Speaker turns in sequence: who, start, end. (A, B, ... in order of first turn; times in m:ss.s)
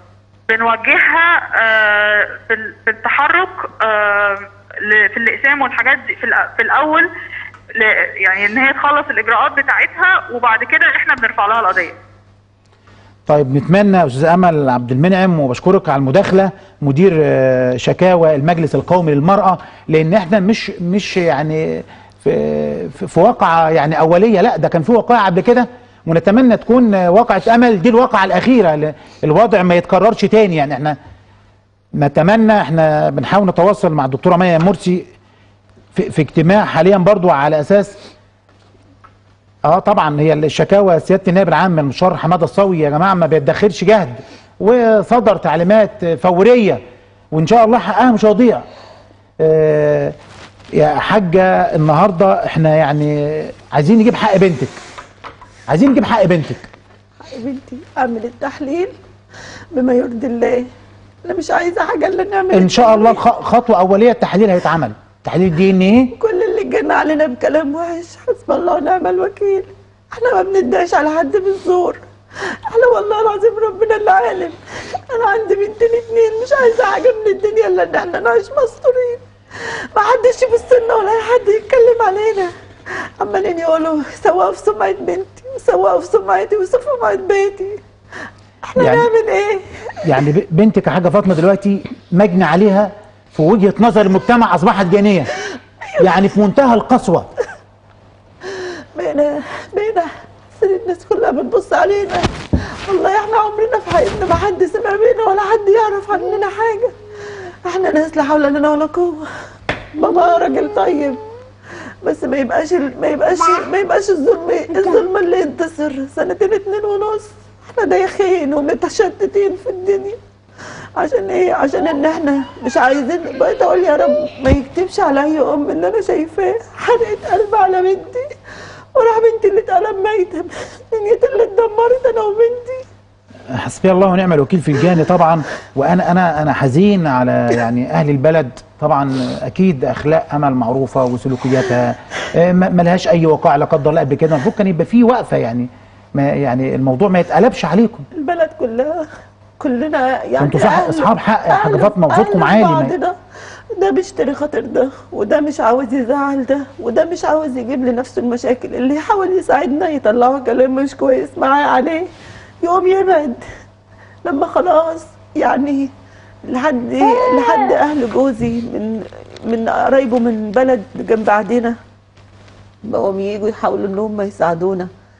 0:00.5-0:07.1 A
0:07.7-0:12.0 A
0:13.3-0:31.0 B
0:32.0-0:35.0 B
0:35.9-0:38.0 B
0:39.7-0:46.8 B
0:47.3-0:48.6 B
0:49.4-0:50.1 B
0:50.7-0:54.7 B
0:55.7-0:56.7 B
0:57.2-0:58.9 C
0:59.7-1:00.6 C
1:01.2-1:03.2 C
1:02.5-1:06.1 B
1:06.1-1:27.8 C
1:28.6-1:30.2 C
1:28.8-1:29.1 B
1:30.0-1:35.3 B
1:36.0-1:37.3 B
1:38.4-1:47.0 C
1:47.6-1:49.3 C
1:49.9-1:51.2 C
1:52.0-2:00.2 C
2:01.0-2:08.3 C
2:08.9-2:12.8 C
2:13.5-2:28.0 B
2:28.1-2:29.0 C
2:29.6-2:33.2 C
2:30.4-2:32.9 B
2:33.7-2:42.1 C
2:42.6-2:43.4 C
2:44.2-2:45.9 C
2:46.4-2:51.8 C
2:52.8-2:54.9 C